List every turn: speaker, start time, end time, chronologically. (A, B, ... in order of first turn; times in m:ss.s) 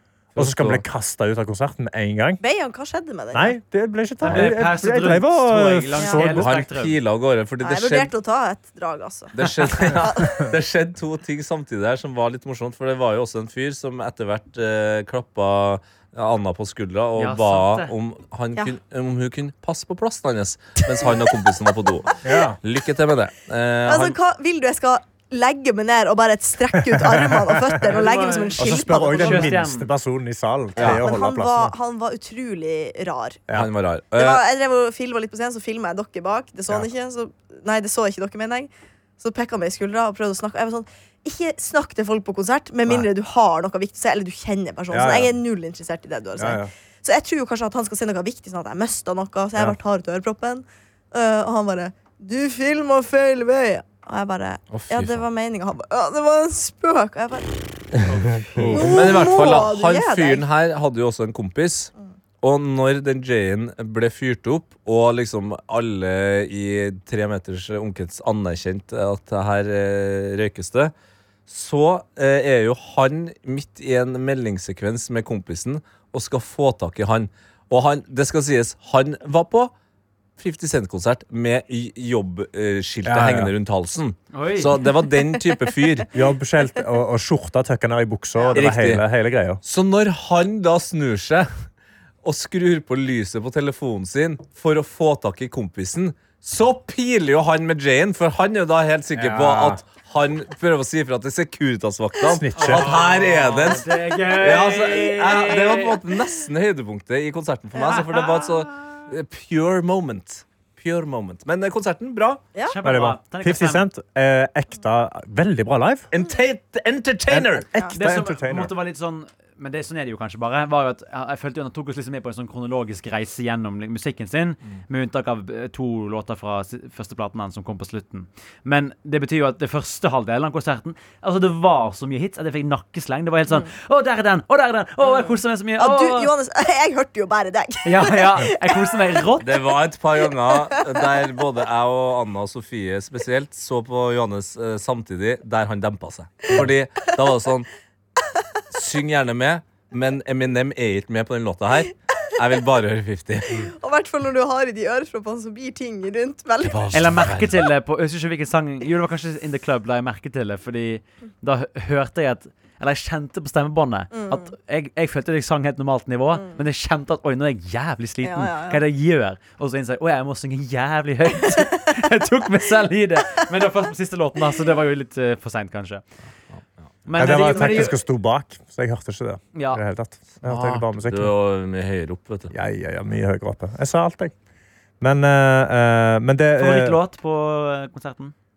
0:00.3-0:00.8 A
0:00.4-0:02.4 B
0:02.4-0:03.6 C
0:03.3-0:06.5 B
0:04.2-0:07.0 D
0:06.4-0:08.1 A
0:07.6-0:10.5 C
0:09.3-0:24.2 A
0:17.2-0:17.9 D
0:22.2-0:22.6 B
0:23.8-0:29.6 C
0:26.8-0:27.8 B
0:27.9-0:29.9 D
0:28.6-0:31.7 B
0:30.8-0:31.0 A
0:30.8-0:33.4 C
0:33.5-0:34.4 A
0:34.1-0:57.6 C
0:44.9-0:45.3 B
0:46.4-0:46.7 B
0:54.7-0:55.2 A
0:58.6-0:59.1 B
0:58.6-1:10.9 A
0:58.7-1:00.4 C
1:11.5-1:19.7 A
1:20.4-1:26.1 A
1:23.0-1:23.5 B
1:24.3-1:24.7 D
1:26.1-1:29.6 B
1:28.5-1:29.0 A
1:29.6-1:31.5 A
1:32.2-1:52.4 A
1:39.1-1:39.8 B
1:42.2-1:43.0 B
1:42.6-1:46.0 D
1:47.8-1:48.3 C
1:52.7-1:53.8 D
1:52.8-1:56.1 B
1:56.1-1:57.7 A
1:57.3-1:58.7 B
1:57.9-2:16.3 D
2:15.0-2:18.8 C
2:17.8-2:19.5 D
2:19.4-2:27.7 A
2:20.5-2:21.0 C
2:28.7-2:33.7 A
2:33.5-2:37.1 C
2:36.6-2:37.5 A
2:36.9-2:56.0 D
2:44.1-2:44.5 C
2:48.2-2:48.8 C
2:57.0-2:58.0 D
2:57.2-3:01.3 B
2:57.4-2:57.8 C
2:59.5-2:59.8 D
3:00.4-3:02.5 A
3:02.5-3:04.3 B
3:05.0-3:07.0 B
3:06.6-3:08.3 D